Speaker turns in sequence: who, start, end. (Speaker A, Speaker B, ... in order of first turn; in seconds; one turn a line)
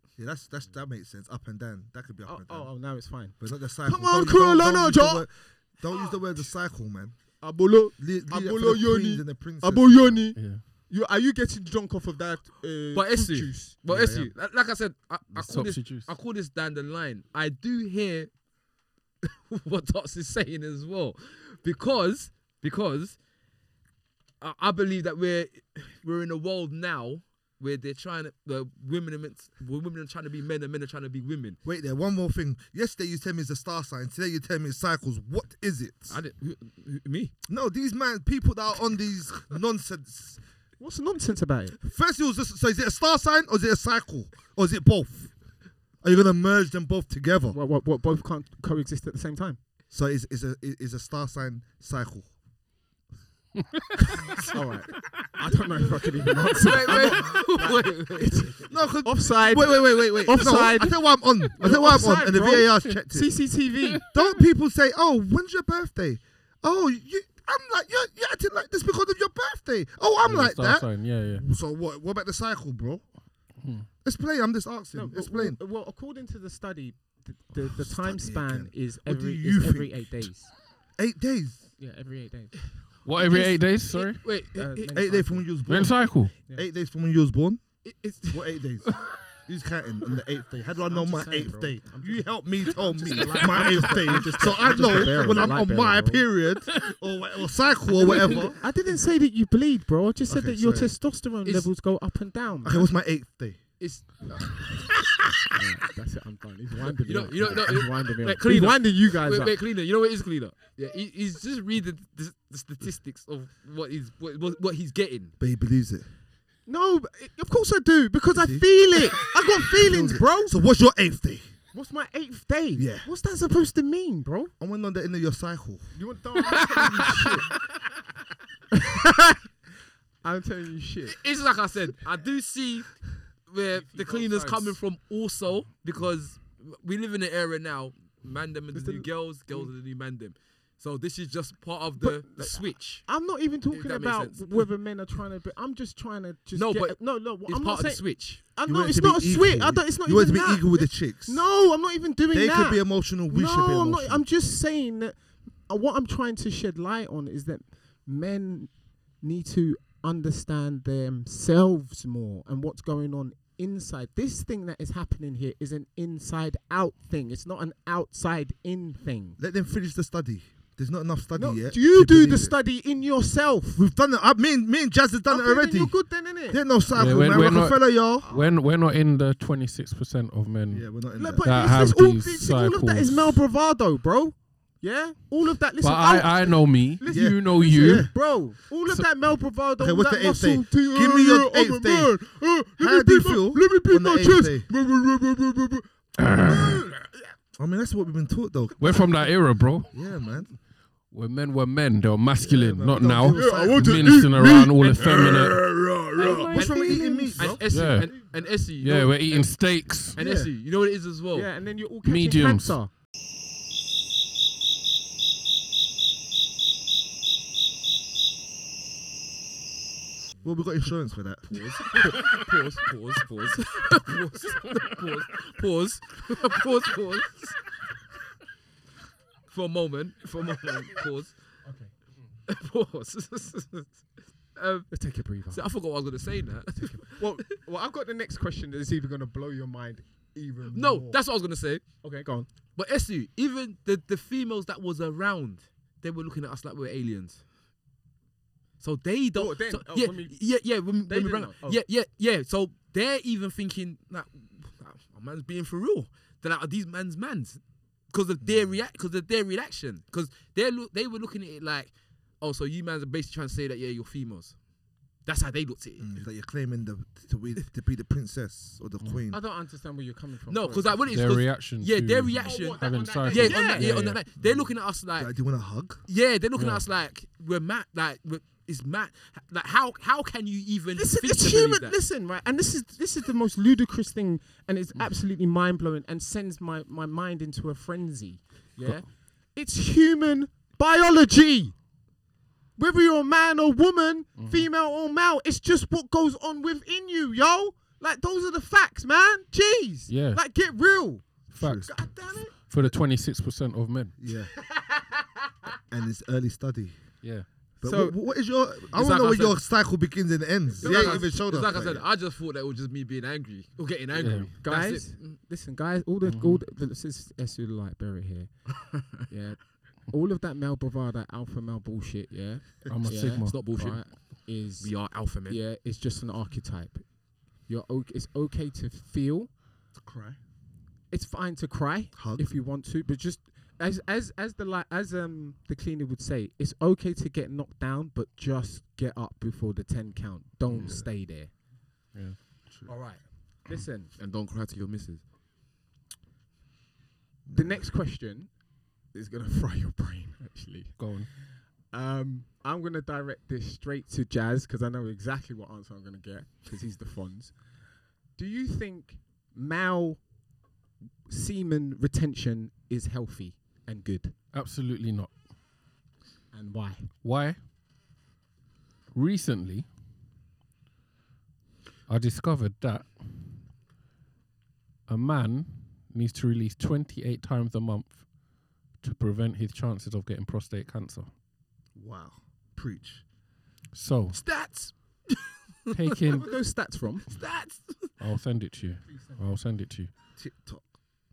Speaker A: 0.2-2.7
Speaker B: 2.2-5.3
Speaker A: 3.4-7.4
Speaker B: 5.9-6.5
Speaker B: 7.4-13.7
Speaker A: 8.0-10.2
Speaker C: 10.3-10.6
Speaker D: 12.9-18.3
Speaker A: 13.9-14.3
Speaker C: 15.3-16.1
Speaker D: 19.2-23.2
Speaker D: 24.4-31.6
Speaker A: 31.6-36.2
Speaker D: 36.1-37.3
Speaker A: 37.5-40.4
Speaker B: 40.8-41.8
Speaker A: 41.8-45.4
Speaker A: 46.0-47.6
Speaker B: 47.5-49.6
Speaker A: 49.9-52.3
Speaker D: 54.2-54.5
Speaker B: 54.5-64.0
Speaker D: 56.6-58.5
Speaker A: 56.8-57.5
Speaker A: 58.5-63.5
Speaker A: 64.1-73.1
Speaker C: 70.2-71.5
Speaker C: 73.6-73.9
Speaker A: 74.0-75.6
Speaker B: 74.9-80.5
Speaker A: 77.6-80.3
Speaker A: 81.0-81.7
Speaker B: 81.8-82.7
Speaker C: 83.0-84.2
Speaker D: 83.2-84.9
Speaker B: 84.5-85.5
Speaker A: 84.9-98.6
Speaker C: 85.7-86.3
Speaker D: 87.8-89.0
Speaker B: 90.8-96.3
Speaker B: 97.9-102.9
Speaker D: 98.1-98.5
Speaker A: 100.3-101.0
Speaker A: 102.6-103.8
Speaker D: 103.8-104.3
Speaker B: 105.5-109.6
Speaker D: 107.1-115.3
Speaker A: 115.4-116.1
Speaker B: 116.7-120.6
Speaker A: 118.3-121.5
Speaker B: 121.7-124.5
Speaker A: 122.8-123.1
Speaker A: 124.6-126.0
Speaker B: 125.9-127.6
Speaker A: 126.5-126.8
Speaker B: 128.7-129.5
Speaker B: 130.2-131.2
Speaker D: 131.1-143.1
Speaker B: 133.8-134.8
Speaker B: 138.7-139.7
Speaker B: 142.0-169.4
Speaker D: 143.7-144.7
Speaker D: 146.6-148.4
Speaker A: 148.7-151.5
Speaker A: 152.3-154.2
Speaker A: 169.4-172.6
Speaker B: 171.4-173.8
Speaker A: 173.8-178.3
Speaker B: 175.3-176.6
Speaker C: 176.9-183.4
Speaker A: 180.7-181.8
Speaker B: 181.2-195.9
Speaker C: 185.8-188.2
Speaker A: 187.1-188.1
Speaker A: 189.8-194.7
Speaker C: 196.2-196.9
Speaker B: 196.4-197.3
Speaker A: 197.6-199.2
Speaker C: 198.8-199.9
Speaker A: 199.9-200.6
Speaker C: 201.1-205.6
Speaker A: 202.4-207.8
Speaker B: 203.3-205.3
Speaker B: 206.1-207.6
Speaker D: 206.6-211.5
Speaker C: 207.7-208.3
Speaker C: 208.8-210.2
Speaker A: 210.2-210.5
Speaker B: 211.3-212.9
Speaker C: 212.0-212.8
Speaker A: 220.4-221.6
Speaker D: 221.5-227.6
Speaker B: 222.0-222.4
Speaker D: 229.5-231.4
Speaker B: 231.6-231.9
Speaker D: 232.5-237.4
Speaker B: 234.9-235.6
Speaker B: 236.8-241.2
Speaker D: 240.7-242.1
Speaker B: 242.0-242.5
Speaker D: 242.8-247.4
Speaker D: 248.8-264.6
Speaker B: 249.3-250.4
Speaker B: 251.1-251.8
Speaker A: 258.4-258.8
Speaker D: 265.2-266.1
Speaker A: 266.0-269.4
Speaker B: 269.3-271.1
Speaker D: 270.5-275.4
Speaker C: 271.1-274.2
Speaker B: 272.4-274.0
Speaker A: 274.4-276.1
Speaker D: 276.1-282.0
Speaker C: 276.6-276.8
Speaker B: 281.0-291.8
Speaker B: 292.8-302.5
Speaker C: 294.4-294.7
Speaker C: 300.1-300.4
Speaker C: 301.5-304.2
Speaker A: 301.6-302.0
Speaker A: 304.2-304.6
Speaker A: 305.9-307.1
Speaker C: 307.2-307.5
Speaker A: 307.8-312.1
Speaker B: 307.8-308.2
Speaker D: 308.9-309.6
Speaker B: 310.8-311.4
Speaker D: 310.8-315.3
Speaker C: 314.1-314.5
Speaker B: 314.6-329.5
Speaker C: 316.2-316.6
Speaker C: 322.9-323.8
Speaker D: 323.2-325.6
Speaker A: 330.0-330.4
Speaker B: 331.1-341.5
Speaker A: 332.1-332.5
Speaker C: 340.7-341.0
Speaker A: 340.8-341.1
Speaker C: 342.1-342.4
Speaker A: 342.7-342.9
Speaker B: 342.9-344.1
Speaker D: 344.2-345.2
Speaker A: 347.4-347.9
Speaker B: 347.5-357.6
Speaker C: 351.0-351.3
Speaker B: 358.4-360.3
Speaker B: 361.3-364.4
Speaker C: 364.5-365.4
Speaker B: 366.5-367.1
Speaker C: 367.2-367.6
Speaker C: 369.1-369.9
Speaker C: 372.1-373.6
Speaker C: 375.1-378.3
Speaker C: 378.9-381.3
Speaker A: 381.9-383.2
Speaker C: 383.9-384.4
Speaker D: 384.3-386.2
Speaker C: 385.9-386.5
Speaker B: 386.3-387.3
Speaker D: 387.3-388.1
Speaker C: 388.2-390.1
Speaker B: 389.1-389.4
Speaker A: 390.4-390.9